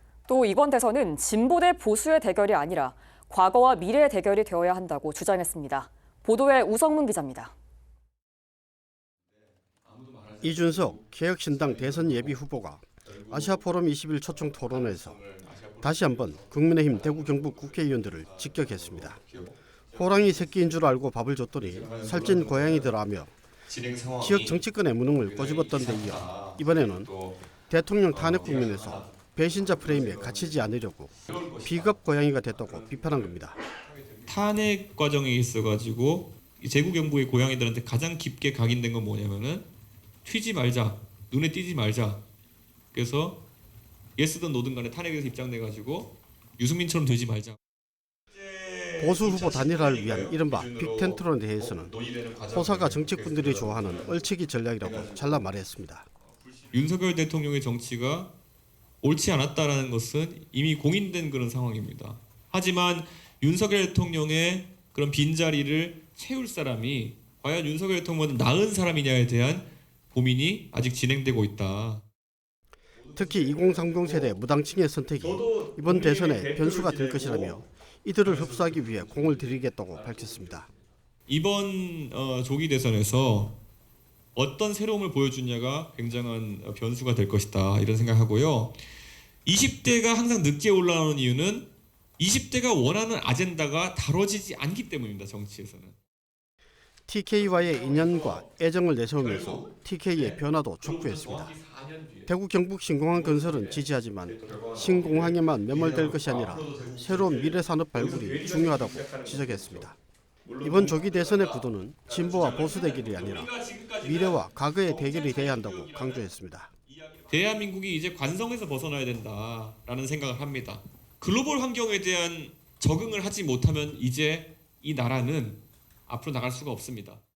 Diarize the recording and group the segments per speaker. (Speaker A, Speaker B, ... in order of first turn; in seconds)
Speaker A: 0.3-7.5
Speaker B: 9.9-12.4, 13.0-13.6, 14.3-20.6, 21.6-22.9, 23.6-27.4, 28.1-30.6, 31.3-39.7, 40.2-42.2, 42.9-43.4, 44.2-47.6, 48.3-54.1, 54.8-55.4, 56.3-58.3, 59.0-72.0, 73.0-74.4, 75.1-77.6, 78.2-83.6, 84.3-88.8, 89.5-96.0, 97.4-98.5, 99.2-102.3, 103.1-109.9, 110.4-116.3, 116.9-127.2
Speaker C: 10.4-15.2, 15.8-19.2, 19.9-23.3, 24.2-27.1, 27.7-33.6, 49.0-51.9, 52.5-56.1, 73.1-80.7, 97.1-101.5, 102.3-110.0, 110.6-113.5, 114.0-116.7